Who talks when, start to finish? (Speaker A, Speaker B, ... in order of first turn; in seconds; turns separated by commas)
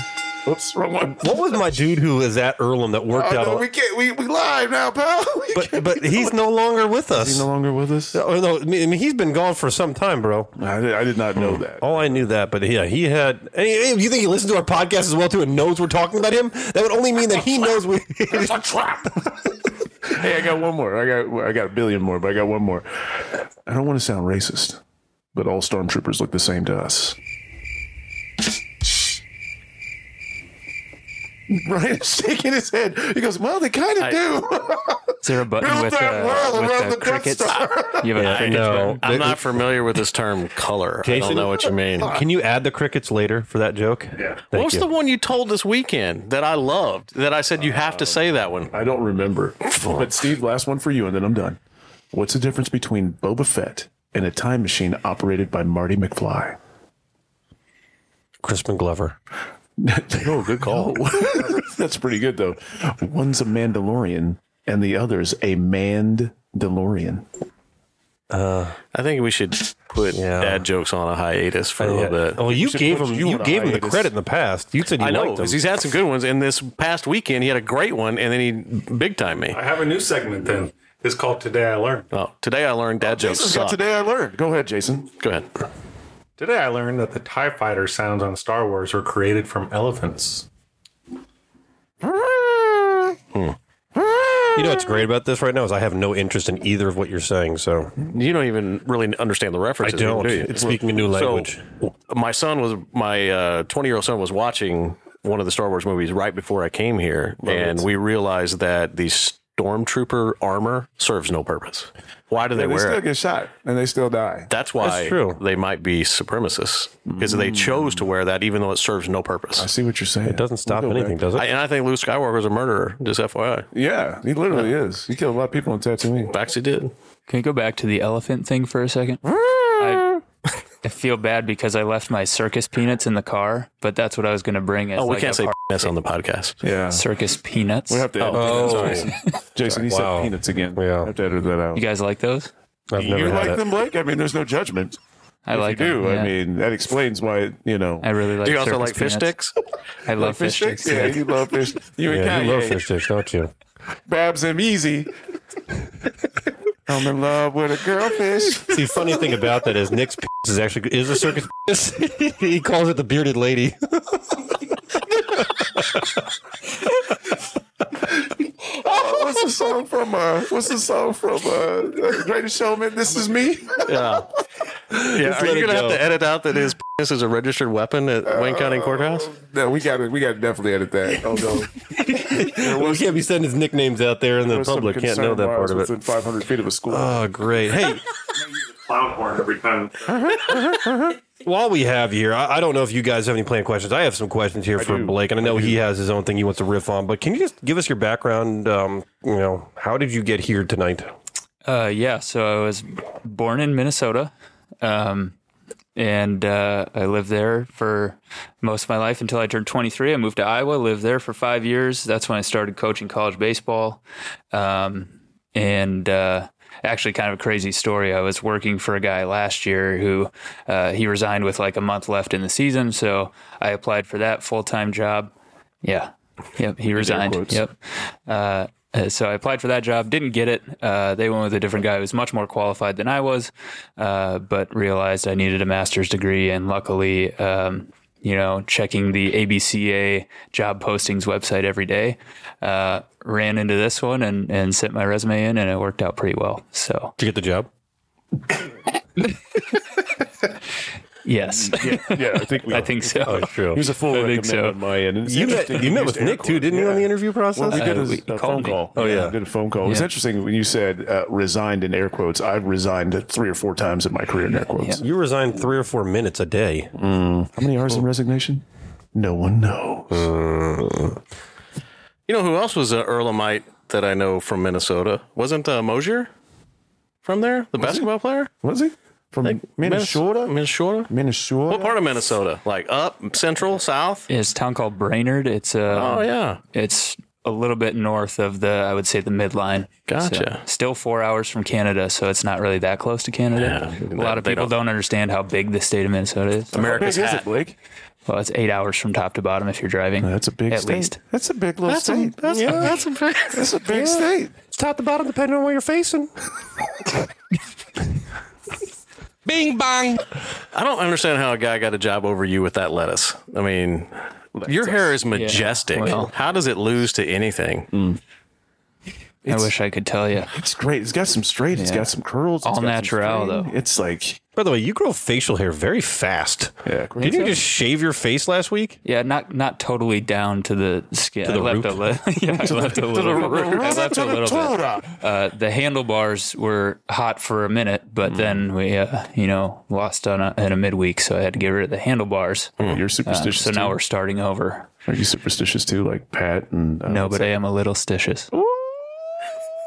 Speaker A: 0.4-1.6, Speaker B: 1.2-3.7, Speaker A: 3.1-6.4, Speaker B: 5.5-7.5, Speaker A: 7.1-8.2, Speaker B: 8.1-10.5, Speaker A: 10.6-12.1, Speaker B: 11.3-18.9, Speaker A: 18.4-19.2, Speaker A: 20.1-24.8, Speaker A: 25.3-27.2, Speaker A: 31.5-38.1, Speaker C: 35.2-39.0, Speaker B: 38.1-39.6, Speaker D: 39.0-42.2, Speaker B: 41.0-44.9, Speaker D: 44.5-48.7, Speaker A: 47.6-51.6, Speaker D: 49.8-50.1, Speaker A: 52.1-56.6, Speaker B: 58.4-59.2, Speaker A: 59.8-67.3, Speaker D: 60.3-60.9, Speaker B: 68.3-68.8, Speaker D: 68.9-72.4, Speaker B: 70.1-70.7, Speaker B: 71.8-75.6, Speaker A: 72.4-74.1, Speaker D: 75.0-79.6, Speaker E: 79.5-82.1, Speaker D: 82.1-83.8, Speaker A: 83.0-85.1, Speaker D: 85.2-85.5, Speaker E: 86.4-90.5, Speaker A: 92.0-93.2, Speaker A: 93.9-95.0, Speaker B: 94.5-97.9, Speaker D: 98.1-113.0, Speaker B: 99.8-101.6, Speaker A: 100.1-100.8, Speaker A: 107.4-107.8, Speaker A: 112.5-114.5, Speaker D: 114.5-119.7, Speaker B: 114.8-115.4, Speaker A: 117.1-118.1, Speaker A: 119.6-121.3, Speaker B: 120.2-121.5, Speaker D: 121.3-123.7, Speaker A: 123.7-126.3, Speaker D: 126.3-126.9, Speaker C: 127.3-129.2, Speaker A: 129.3-129.7, Speaker C: 129.8-130.2, Speaker C: 130.8-135.9, Speaker D: 135.0-136.6, Speaker A: 136.6-137.1, Speaker C: 136.9-139.1, Speaker A: 137.9-141.8, Speaker D: 138.2-139.0, Speaker B: 138.3-139.1, Speaker B: 139.7-141.1, Speaker C: 141.7-142.5, Speaker B: 142.9-143.6, Speaker A: 142.9-145.0, Speaker C: 145.5-146.3, Speaker A: 145.5-148.1, Speaker C: 148.0-149.3, Speaker D: 148.4-149.6, Speaker C: 150.1-151.2, Speaker A: 150.2-152.8, Speaker B: 152.1-153.5, Speaker A: 154.1-155.1, Speaker A: 156.9-159.2, Speaker B: 158.6-164.2, Speaker A: 168.6-174.2, Speaker D: 173.8-174.3, Speaker B: 174.9-176.1, Speaker D: 175.0-179.3, Speaker A: 178.3-183.2, Speaker B: 182.1-185.9, Speaker A: 184.5-187.2, Speaker B: 186.9-188.0, Speaker E: 188.4-190.1, Speaker A: 190.1-191.2, Speaker B: 191.4-201.1, Speaker A: 194.8-195.8, Speaker C: 201.7-205.3, Speaker C: 206.0-214.0, Speaker C: 214.5-225.3, Speaker C: 225.8-227.8, Speaker A: 226.9-227.7, Speaker C: 228.3-247.2, Speaker B: 247.2-247.7, Speaker C: 251.2-254.8, Speaker A: 251.5-265.0, Speaker B: 253.2-253.8, Speaker B: 255.2-258.1, Speaker C: 257.7-259.2, Speaker B: 258.9-259.4, Speaker C: 259.8-260.1, Speaker C: 264.8-265.0, Speaker B: 265.0-266.9, Speaker A: 267.0-270.3, Speaker B: 270.1-271.2, Speaker D: 272.3-276.3, Speaker D: 277.2-278.5, Speaker A: 277.8-278.1, Speaker A: 278.6-280.6, Speaker D: 279.4-281.1, Speaker A: 281.1-282.1, Speaker D: 281.7-284.3, Speaker C: 284.3-296.8, Speaker D: 285.9-286.6, Speaker D: 290.1-290.6, Speaker D: 293.6-294.7, Speaker A: 296.7-297.8, Speaker D: 296.7-297.5, Speaker C: 298.3-301.2, Speaker A: 300.2-302.8, Speaker D: 301.9-303.7, Speaker B: 302.4-303.0, Speaker A: 303.5-304.5, Speaker B: 303.9-306.3, Speaker E: 309.5-310.0, Speaker D: 310.7-314.1, Speaker A: 314.6-315.2, Speaker D: 314.7-317.9, Speaker C: 315.3-316.3, Speaker A: 317.9-318.2, Speaker A: 319.4-319.7, Speaker C: 319.5-320.5, Speaker A: 320.5-324.4, Speaker C: 321.8-322.1, Speaker C: 322.6-323.7, Speaker B: 324.6-329.0, Speaker A: 326.9-327.6, Speaker C: 327.2-327.5, Speaker C: 329.1-344.9, Speaker B: 331.4-332.1, Speaker A: 332.6-335.1, Speaker D: 333.2-333.8, Speaker A: 338.2-338.6, Speaker A: 342.8-344.0, Speaker A: 345.1-347.5, Speaker C: 347.1-348.5, Speaker A: 348.5-349.3